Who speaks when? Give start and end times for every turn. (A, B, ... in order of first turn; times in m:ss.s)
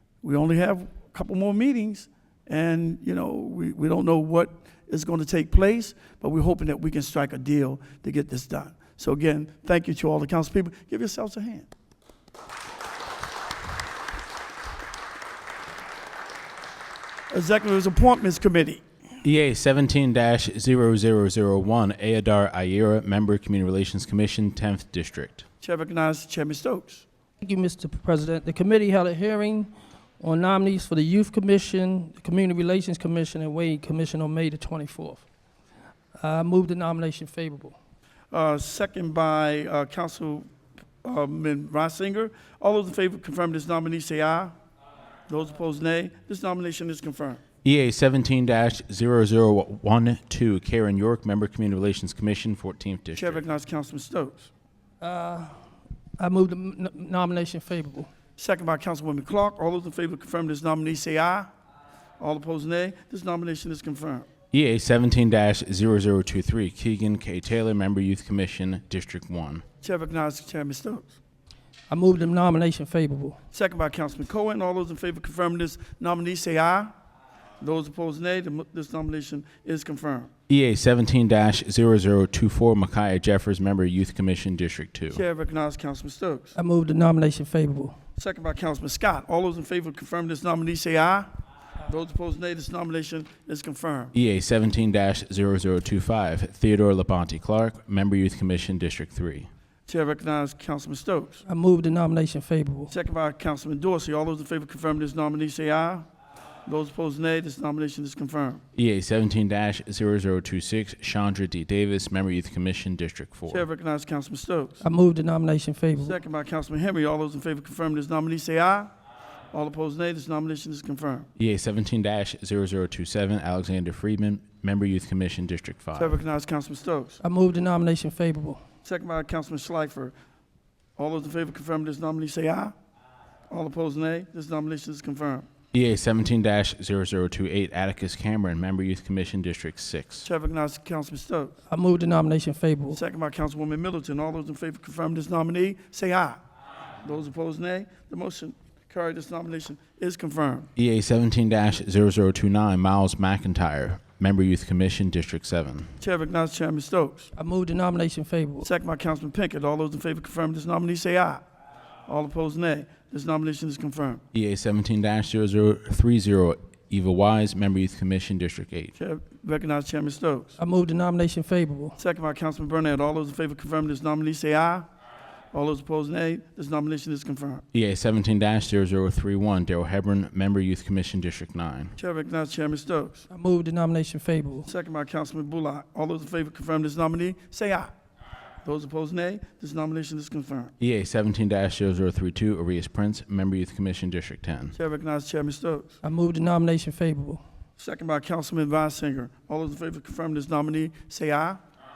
0:00.2-0:11.7 A
0:17.3-0:18.8 A
0:19.2-0:25.4 B
0:25.6-0:27.0 A
0:27.4-0:35.2 C
0:36.2-0:37.8 C
0:38.3-0:40.5 A
0:41.0-0:44.5 A
0:45.3-0:47.4 A
0:47.6-0:53.4 B
0:53.1-0:54.5 A
0:55.0-0:55.5 C
0:56.2-0:58.1 C
0:58.4-1:01.5 A
1:02.2-1:04.3 A
1:04.5-1:09.6 B
1:09.8-1:11.2 A
1:11.9-1:13.4 C
1:13.5-1:16.9 A
1:17.6-1:20.3 A
1:20.5-1:25.2 B
1:25.1-1:26.6 A
1:26.6-1:27.9 C
1:28.2-1:31.3 A
1:31.9-1:34.1 A
1:34.1-1:39.5 B
1:39.9-1:41.4 A
1:41.4-1:42.9 C
1:42.9-1:46.1 A
1:46.6-1:48.6 A
1:48.8-1:53.7 B
1:53.5-1:54.8 A
1:54.8-1:56.2 C
1:56.0-1:58.9 A
1:59.5-2:01.3 A
2:01.4-2:06.2 B
2:05.9-2:07.2 A
2:07.2-2:08.6 C
2:08.8-2:10.1 A
2:11.0-2:12.7 A
2:13.5-2:15.5 A
2:15.7-2:20.3 B
2:20.2-2:21.5 A
2:21.7-2:23.0 C
2:22.9-2:26.4 A
2:27.0-2:30.7 A
2:30.8-2:35.9 B
2:36.0-2:37.3 A
2:37.4-2:38.7 C
2:38.6-2:41.4 A
2:42.1-2:44.2 A
2:44.3-2:48.9 B
2:49.0-2:50.6 A
2:50.6-2:52.0 C
2:52.0-2:54.9 A
2:55.5-2:57.6 A
2:57.7-3:01.9 B
3:02.0-3:03.3 A
3:03.3-3:04.7 C
3:04.6-3:07.9 A
3:08.6-3:10.7 A
3:10.8-3:14.8 B
3:14.7-3:16.0 A
3:16.0-3:17.4 C
3:17.8-3:21.6 A